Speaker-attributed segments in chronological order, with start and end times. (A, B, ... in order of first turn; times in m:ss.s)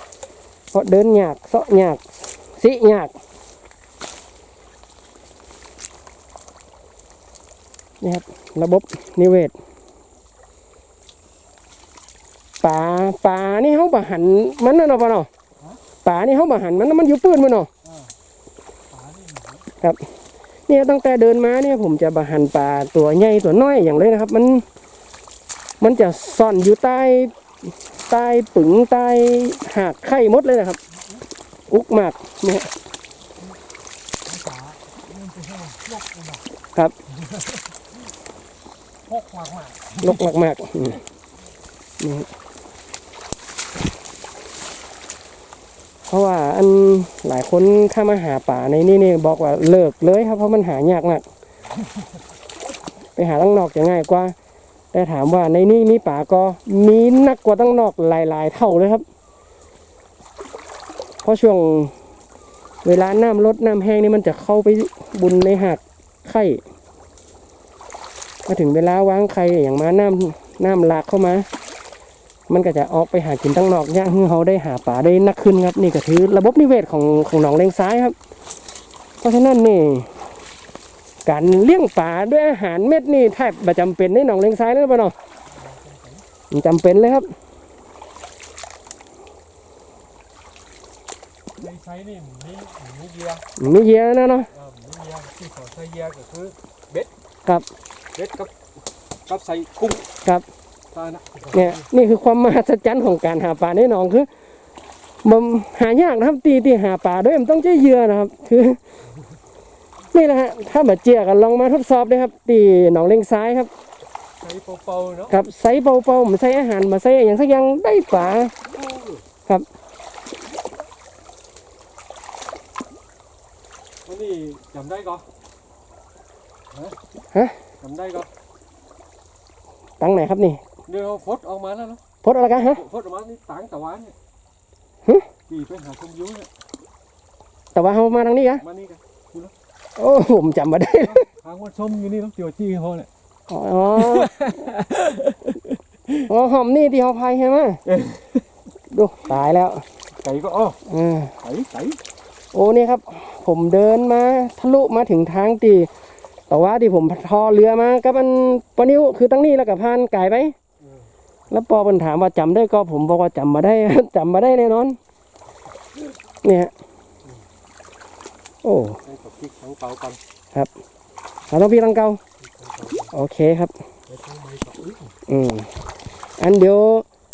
0:00.7-0:03.2 A
0:08.0-0:09.6 A
0:12.6-0:15.3 A
0:16.0-0:17.7 A
0:17.8-0:18.2 B
0:18.9-0:19.7 B
0:20.7-0:24.6 A
0:25.8-0:30.8 A
0:30.9-0:31.2 B
0:31.7-0:32.7 A
0:34.2-0:36.5 B
0:37.1-0:37.9 B
0:39.1-0:40.3 B
0:40.0-0:41.0 A
0:42.0-0:42.3 A
0:46.1-0:51.2 A
0:53.2-0:54.4 A
0:54.9-0:59.0 A
1:01.2-1:01.9 A
1:02.8-1:06.6 A
1:08.5-1:11.5 A
1:12.5-1:18.2 A
1:19.2-1:20.2 A
1:21.2-1:25.2 A
1:25.5-1:26.3 B
1:26.5-1:27.3 A
1:31.6-1:33.5 B
1:33.6-1:34.5 A
1:34.5-1:37.1 B
1:38.2-1:38.5 B
1:39.3-1:40.1 B
1:40.9-1:41.9 B
1:41.5-1:44.3 A
1:45.2-1:48.8 A
1:50.1-1:53.7 A
1:54.4-1:55.4 B
1:55.3-1:58.5 A
1:58.7-1:59.3 B
2:04.1-2:05.3 B
2:07.8-2:08.3 B
2:10.0-2:10.6 A
2:10.9-2:14.2 B
2:12.2-2:12.8 A
2:15.5-2:16.5 B
2:17.8-2:18.6 A
2:18.6-2:19.5 B
2:20.0-2:21.2 A
2:21.0-2:23.1 B
2:23.5-2:24.3 A
2:24.0-2:25.6 B
2:26.3-2:27.8 A
2:27.9-2:28.4 B
2:28.9-2:29.8 A
2:30.2-2:30.8 B
2:30.9-2:31.4 A
2:31.4-2:32.0 B
2:32.5-2:35.9 A
2:36.5-2:40.6 A
2:40.8-2:41.1 B
2:41.5-2:45.0 A
2:46.4-2:46.7 A
2:48.6-2:49.0 A
2:48.9-2:50.2 B
2:51.5-2:52.2 A
2:52.4-2:53.1 B
2:53.1-2:53.8 A
2:54.1-2:55.1 B
2:55.3-2:55.7 A
2:56.4-2:57.0 A